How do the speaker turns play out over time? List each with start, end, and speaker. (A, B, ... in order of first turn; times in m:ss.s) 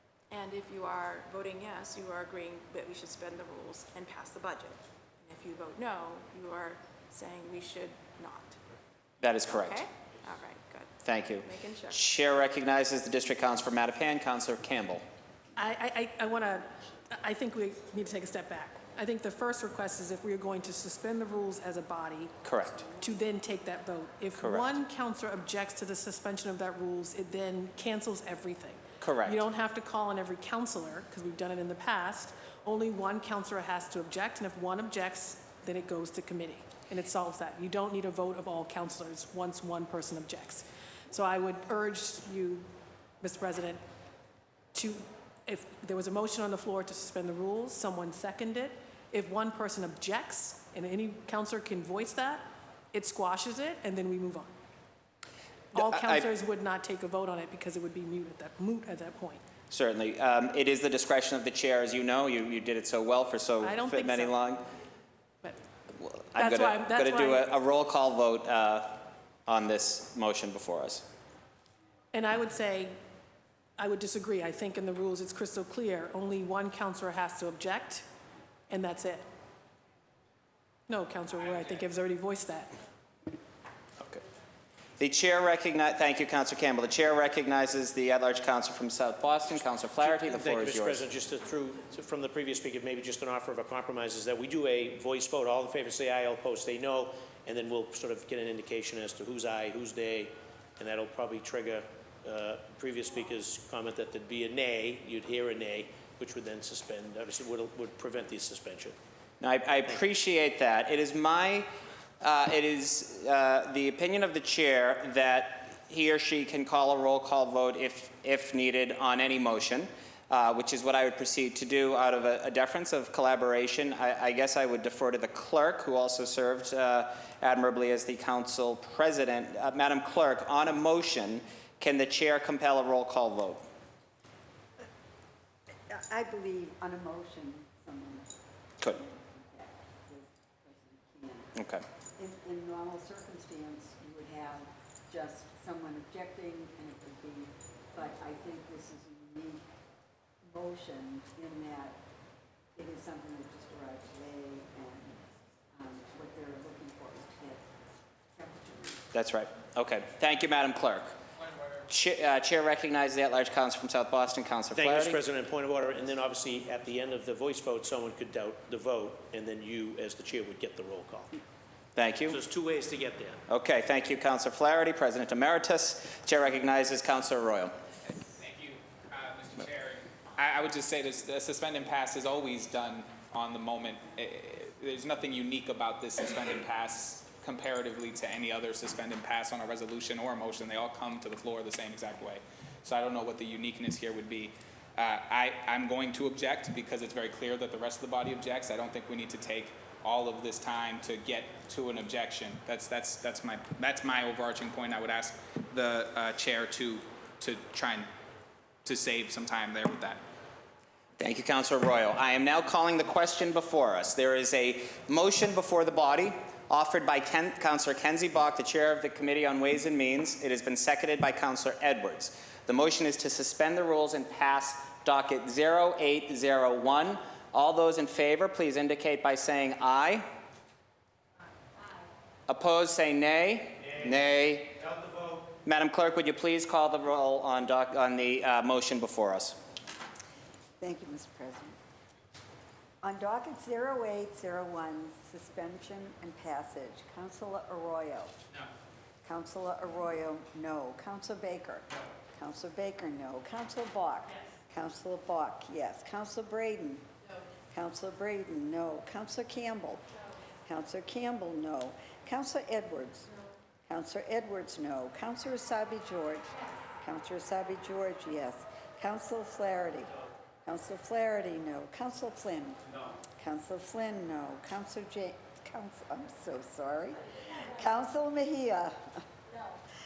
0:00.3-0:08.6 A
0:09.2-0:09.8 B
0:09.5-0:12.0 A
0:11.0-0:15.0 B
0:15.5-0:42.7 C
0:22.4-0:22.9 B
0:24.4-0:24.8 B
0:29.0-0:29.4 B
0:43.2-0:43.8 C
0:44.7-0:54.5 C
0:55.7-0:59.4 C
0:55.7-0:56.3 B
0:59.7-1:04.6 B
1:03.6-1:04.4 C
1:06.0-1:11.0 B
1:06.4-1:07.4 C
1:12.1-1:13.0 C
1:13.8-1:18.0 C
1:18.7-1:19.2 C
1:20.9-1:22.7 C
1:25.0-1:31.0 B
1:30.0-1:49.0 D
1:49.4-1:51.6 B
1:52.2-2:13.6 B
2:15.9-2:18.3 E
2:18.8-2:21.6 E
2:21.6-2:21.8 B
2:22.2-2:29.6 E
2:30.4-2:32.0 E
2:32.7-2:35.2 E
2:35.7-2:37.6 E
2:38.3-2:39.0 E
2:39.1-2:41.1 B
2:41.9-2:45.2 B
2:44.7-2:51.4 D
2:52.0-2:52.4 B
2:52.3-2:53.4 D
2:53.5-2:57.7 B
2:58.2-3:28.1 F
3:28.8-3:30.2 F
3:31.2-3:50.2 B
3:52.5-3:54.7 B
3:53.8-3:54.2 D
3:54.7-3:55.5 D
3:55.6-3:59.6 B
4:00.8-4:01.8 E
4:03.0-4:08.3 E
4:09.2-4:17.1 E
4:17.7-4:20.0 E
4:20.6-4:23.3 E
4:23.9-4:30.1 E
4:30.6-4:32.8 E
4:33.4-4:39.2 E